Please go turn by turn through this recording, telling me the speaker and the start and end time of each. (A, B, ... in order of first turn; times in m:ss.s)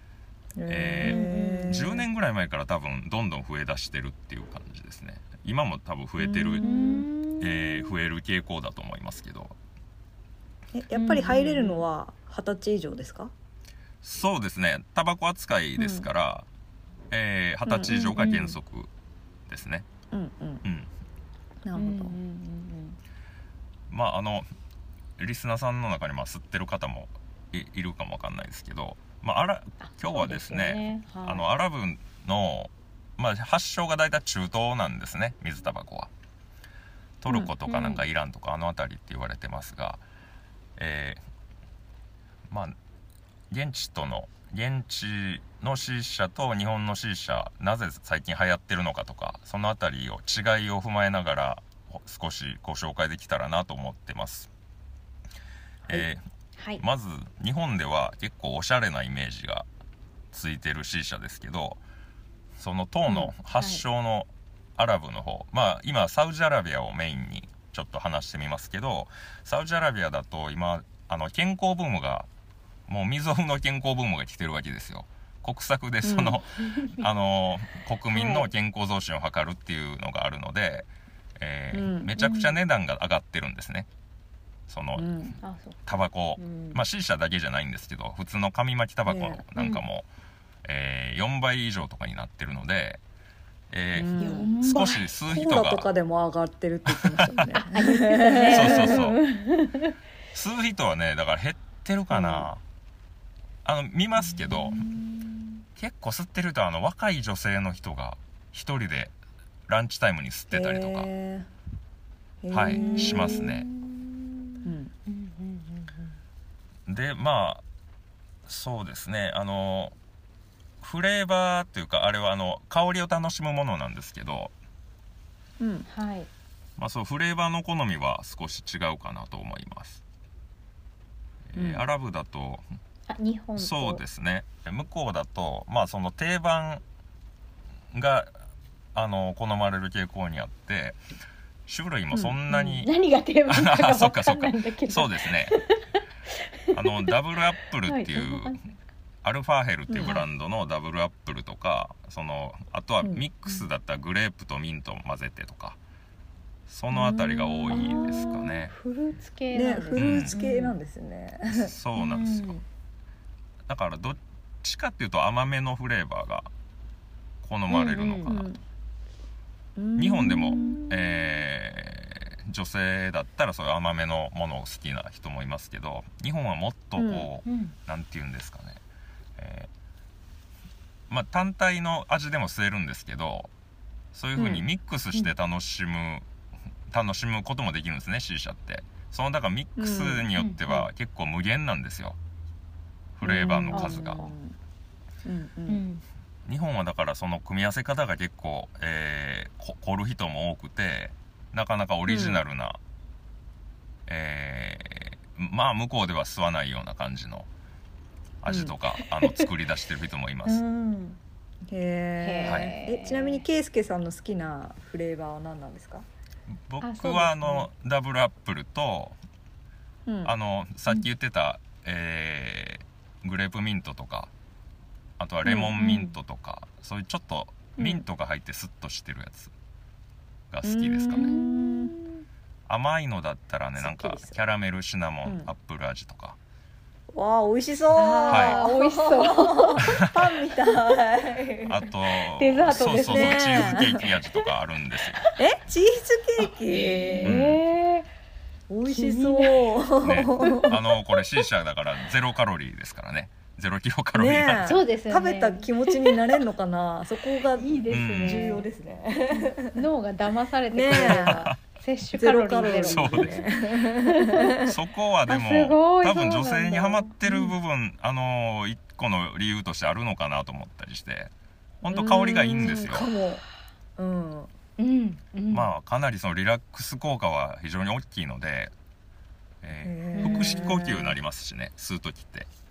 0:00.6-0:02.0 A
0:00.7-0:06.7 B
0:01.0-0:01.8 C
0:06.2-0:07.1 A
0:06.6-0:08.0 C
0:07.4-0:09.5 B
0:10.7-0:13.3 A
0:10.9-0:11.8 C
0:14.0-0:16.4 B
0:15.8-0:16.1 A
0:17.1-0:18.9 B
0:17.6-0:18.5 A
0:17.8-0:18.6 C
0:19.5-0:19.8 B
0:20.1-0:20.6 A
0:21.6-0:22.2 A
0:21.8-0:23.0 C
0:23.9-0:24.4 B
0:25.2-0:36.1 B
0:29.8-0:31.5 C
0:37.2-0:40.0 B
0:37.6-0:38.0 C
0:40.8-0:41.2 B
0:42.5-0:42.8 B
0:43.5-0:54.5 B
0:55.9-0:56.2 B
0:56.6-0:56.8 C
0:56.8-0:59.6 B
1:00.3-1:01.8 B
1:02.6-1:12.3 B
1:03.1-1:03.8 C
1:12.9-1:23.9 B
1:16.0-1:16.4 A
1:16.6-1:17.1 C
1:18.1-1:18.5 C
1:21.7-1:22.1 A
1:22.2-1:22.5 C
1:24.7-1:25.1 B
1:25.0-1:25.3 A
1:25.4-1:26.8 C
1:25.9-1:30.0 B
1:29.0-1:29.4 A
1:29.6-1:29.8 C
1:30.6-1:33.0 B
1:33.7-1:35.9 B
1:33.9-1:39.1 A
1:34.2-1:35.1 C
1:36.9-1:37.5 B
1:37.5-1:39.9 C
1:38.5-1:39.2 B
1:40.3-1:42.6 B
1:43.6-1:44.9 B
1:44.2-1:45.0 C
1:45.8-1:49.1 B
1:49.7-1:51.1 B
1:50.5-1:51.5 A
1:52.4-1:53.6 A
1:52.5-1:53.7 B
1:52.7-1:56.1 C
1:54.6-1:54.9 A
1:56.9-1:57.6 B
1:58.4-1:59.9 B
2:00.8-2:04.5 B
2:05.6-2:05.8 A
2:05.8-2:06.3 C
2:06.8-2:10.0 B
2:11.5-2:12.6 B
2:11.5-2:11.8 A
2:13.1-2:14.0 C
2:13.6-2:16.8 B
2:17.9-2:18.3 B
2:18.9-2:21.0 B
2:21.7-2:22.9 B
2:22.1-2:22.4 A
2:22.5-2:27.1 C
2:23.5-2:25.6 B
2:26.7-2:28.6 B
2:27.8-2:28.7 C
2:29.2-2:35.8 B
2:29.9-2:30.2 A
2:30.0-2:30.3 C
2:36.7-2:38.7 B
2:36.9-2:38.2 A
2:37.0-2:40.8 C
2:39.5-2:41.7 A
2:40.0-2:40.4 B
2:41.5-2:42.6 B
2:42.0-2:42.6 C
2:43.7-2:46.5 B
2:47.4-2:48.5 B
2:47.7-2:48.4 C
2:48.2-2:48.6 A
2:49.8-2:51.4 A
2:50.0-2:58.8 B
2:50.2-2:50.9 C
2:57.0-2:57.3 A
2:57.4-2:57.7 C
2:59.4-2:59.7 B
3:01.1-3:03.5 B
3:04.1-3:06.2 B
3:04.4-3:04.6 A
3:06.9-3:12.2 B
3:09.8-3:10.3 A
3:10.3-3:10.9 C
3:13.2-3:14.2 B
3:13.2-3:14.6 A
3:13.7-3:14.3 C
3:15.2-3:15.8 A
3:15.7-3:16.0 C
3:16.4-3:22.8 B
3:22.0-3:22.4 A
3:24.1-3:27.5 B
3:28.4-3:30.6 B
3:28.5-3:28.7 A
3:29.0-3:29.5 C
3:30.4-3:31.2 C
3:31.7-3:36.1 A
3:32.2-3:33.4 C
3:32.4-3:32.7 B
3:36.7-3:39.2 B
3:36.8-3:37.6 C
3:40.0-3:40.3 A
3:40.2-3:44.3 B
3:45.2-3:49.5 B
3:45.4-3:46.2 C
3:47.8-3:48.0 A
3:50.5-3:51.3 B
3:50.6-3:52.0 A
3:51.1-3:52.0 C
3:52.7-3:56.4 B
3:53.8-3:54.4 A
3:55.2-3:55.5 A
3:57.1-4:01.9 A
3:58.0-4:00.0 C
3:58.3-3:58.6 B
4:01.6-4:05.2 B
4:02.3-4:04.5 C
4:02.9-4:04.0 A
4:05.4-4:07.4 A
4:06.4-4:08.1 C
4:07.2-4:07.6 B
4:08.7-4:10.8 A
4:08.9-4:10.8 C
4:10.0-4:14.8 B
4:14.1-4:19.8 A
4:14.6-4:16.2 C
4:17.5-4:18.7 C
4:17.9-4:18.5 B
4:19.3-4:24.6 C
4:20.7-4:21.5 A
4:20.9-4:21.6 B
4:22.1-4:24.7 A
4:22.8-4:23.4 B
4:24.6-4:31.3 B
4:25.3-4:27.1 C
4:27.2-4:27.5 A
4:31.8-4:33.1 B
4:31.9-4:33.4 A
4:31.9-4:32.9 C
4:34.0-4:34.5 A
4:34.8-4:35.7 C
4:35.5-4:38.7 B
4:39.6-4:42.5 B
4:39.8-4:41.2 A
4:40.1-4:40.8 C